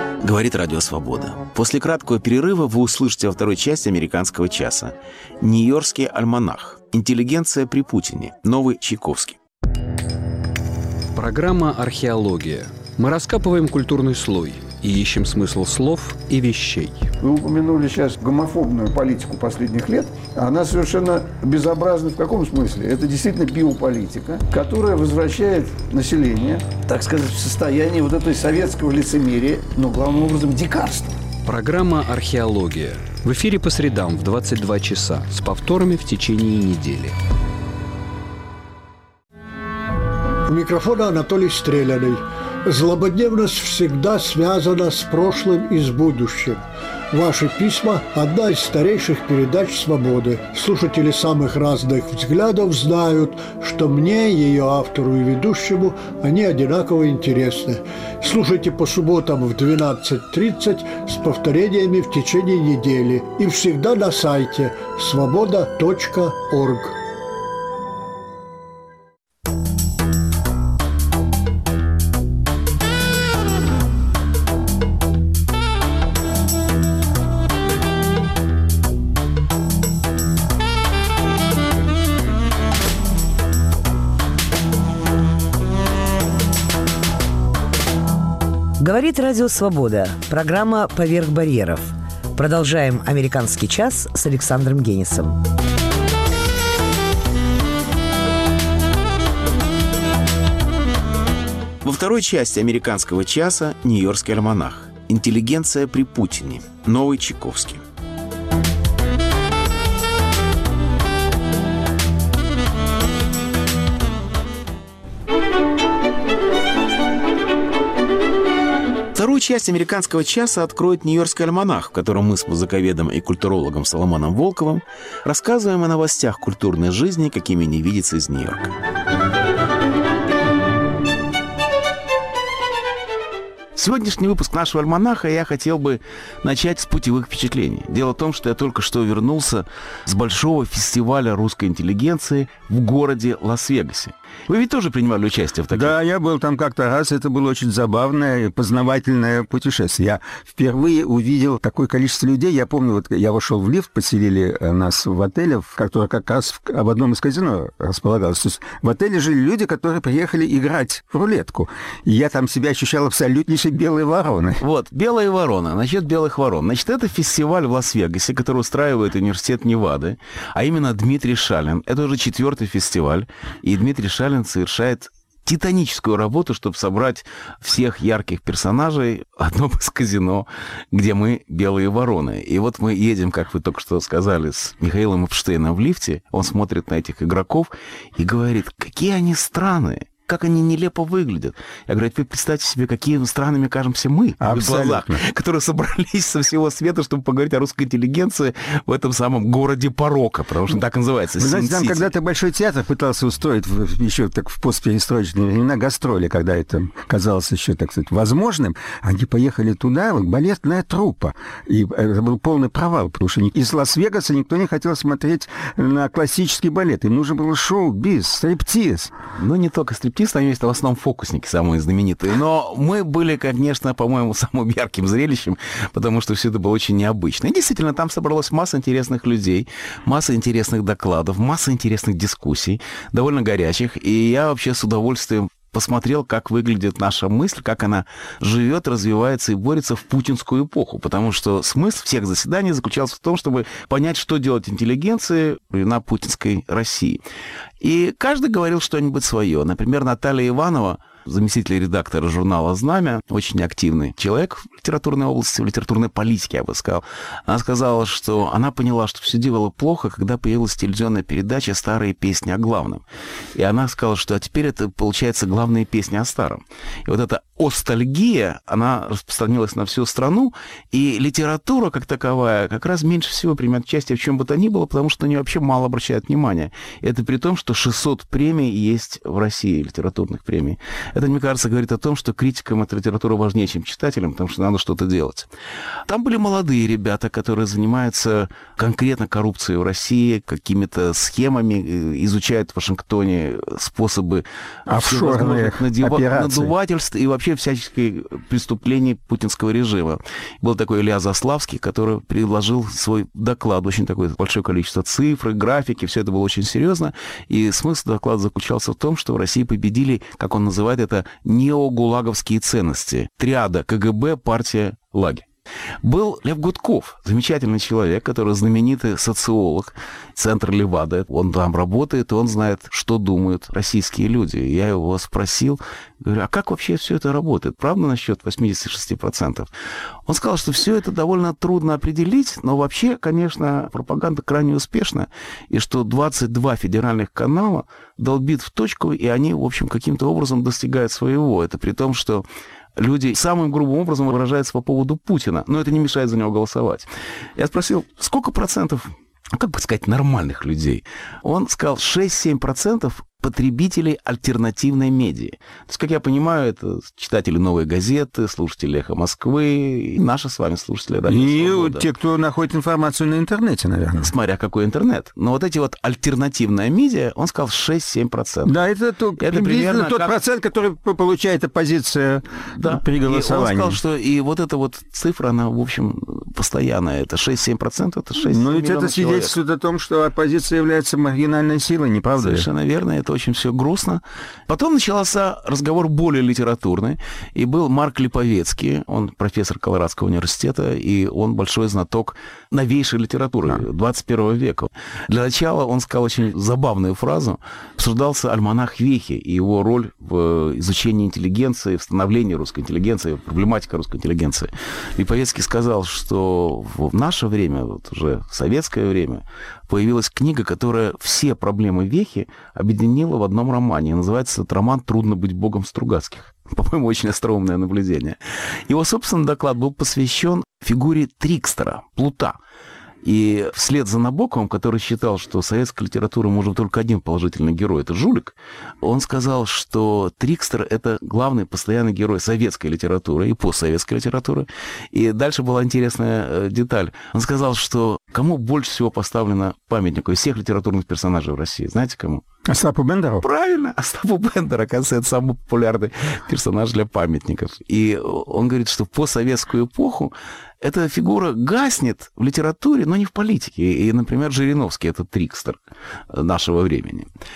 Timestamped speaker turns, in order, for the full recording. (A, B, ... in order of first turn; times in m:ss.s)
0:00.2-0:09.4 A
0:11.1-0:17.1 B
0:17.2-0:31.1 C
0:31.4-0:37.2 B
0:40.5-1:07.0 D
1:28.8-1:35.4 E
1:41.8-1:47.8 A
1:59.1-2:08.7 A
2:13.8-2:26.0 A
2:25.7-2:44.6 F
2:44.6-3:22.1 A
3:14.4-3:15.2 F
3:21.4-3:39.1 F
3:39.4-4:07.2 A
4:07.8-4:23.0 A
4:23.6-4:45.5 A
4:46.1-5:15.4 A
4:54.9-4:56.7 F
5:16.0-5:29.7 A
5:30.3-5:42.4 A
5:43.0-6:02.1 A
6:01.2-6:04.3 F
6:04.2-6:08.8 A
6:08.6-6:14.0 F
6:09.4-6:10.4 A
6:12.8-6:19.6 A
6:18.4-6:22.7 F
6:22.4-6:58.4 A
6:58.9-7:02.6 A
7:03.2-7:22.4 A
7:22.7-7:23.4 F
7:23.4-7:35.8 A
7:36.3-7:37.3 A